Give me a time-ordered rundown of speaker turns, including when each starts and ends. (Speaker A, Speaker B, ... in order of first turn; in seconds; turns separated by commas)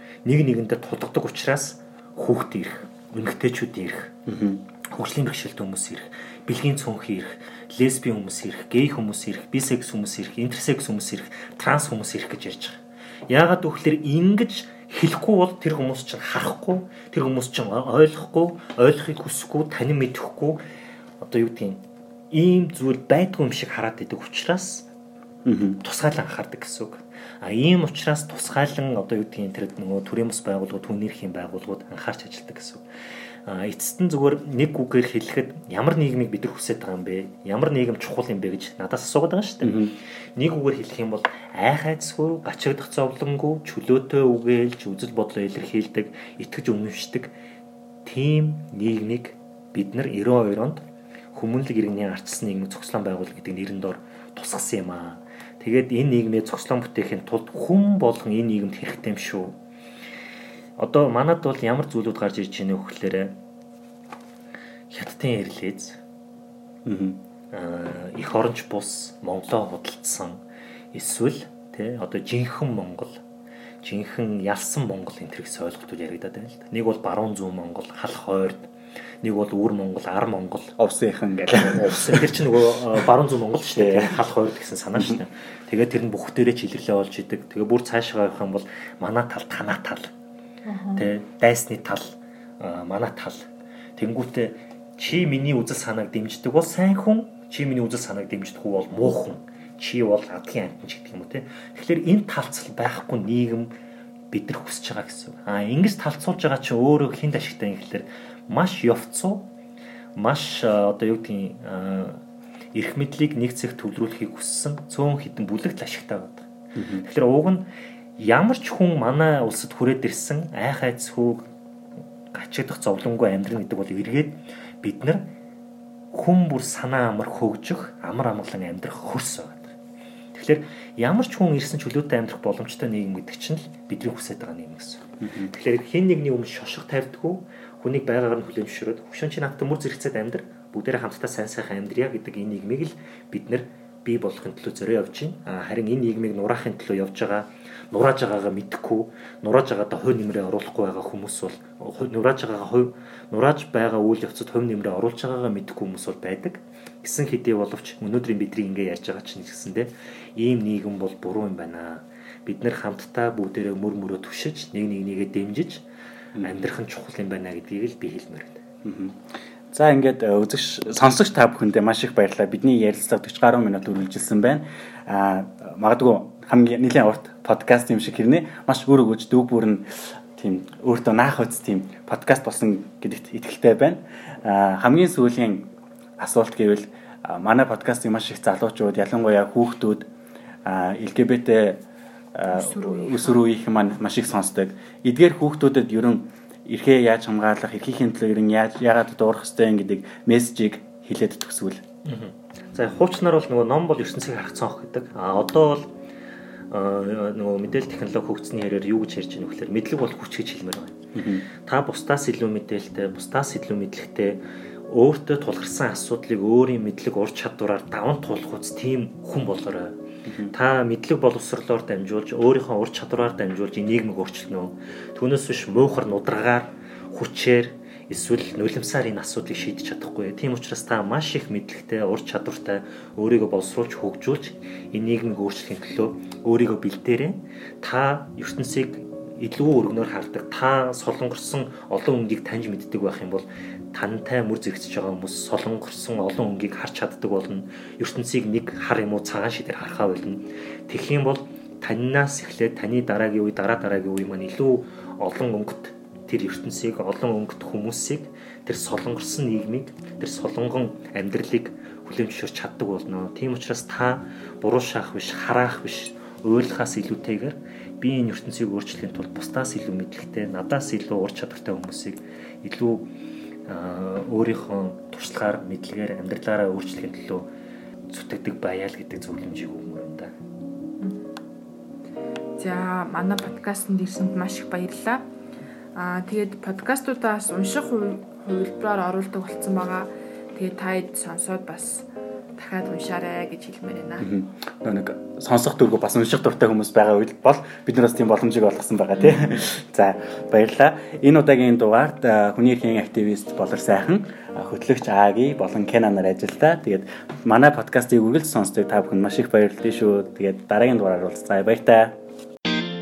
Speaker A: 0.2-4.1, Speaker B: 4.3-4.6, Speaker A: 4.9-20.6, Speaker A: 21.2-24.9, Speaker B: 25.4-25.8, Speaker A: 25.8-32.8, Speaker A: 33.5-47.3, Speaker B: 39.6-40.0, Speaker A: 48.0-59.6, Speaker A: 60.8-63.4, Speaker A: 64.9-66.0, Speaker B: 66.8-67.2, Speaker A: 67.5-70.4, Speaker A: 70.9-73.2, Speaker A: 73.8-78.7, Speaker A: 79.2-80.8, Speaker B: 80.8-83.1, Speaker A: 81.4-90.1, Speaker B: 83.7-84.2, Speaker C: 90.6-91.0, Speaker A: 91.0-103.7, Speaker A: 104.3-109.5, Speaker A: 110.2-112.2, Speaker A: 112.7-121.5, Speaker B: 116.8-117.0, Speaker A: 122.3-125.3, Speaker A: 126.1-129.7, Speaker A: 130.3-165.8, Speaker B: 135.2-135.5, Speaker B: 166.4-166.7, Speaker A: 166.4-168.6, Speaker B: 168.8-190.1, Speaker B: 190.6-191.8, Speaker B: 192.3-201.8, Speaker C: 192.5-193.4, Speaker A: 202.0-205.9, Speaker A: 206.7-220.0, Speaker B: 211.1-211.5, Speaker B: 220.3-220.5, Speaker A: 220.5-273.1, Speaker A: 273.7-277.5, Speaker A: 278.1-280.3, Speaker C: 281.0-281.3, Speaker C: 282.6-285.2, Speaker C: 285.9-294.3, Speaker B: 294.2-312.2, Speaker C: 299.2-299.5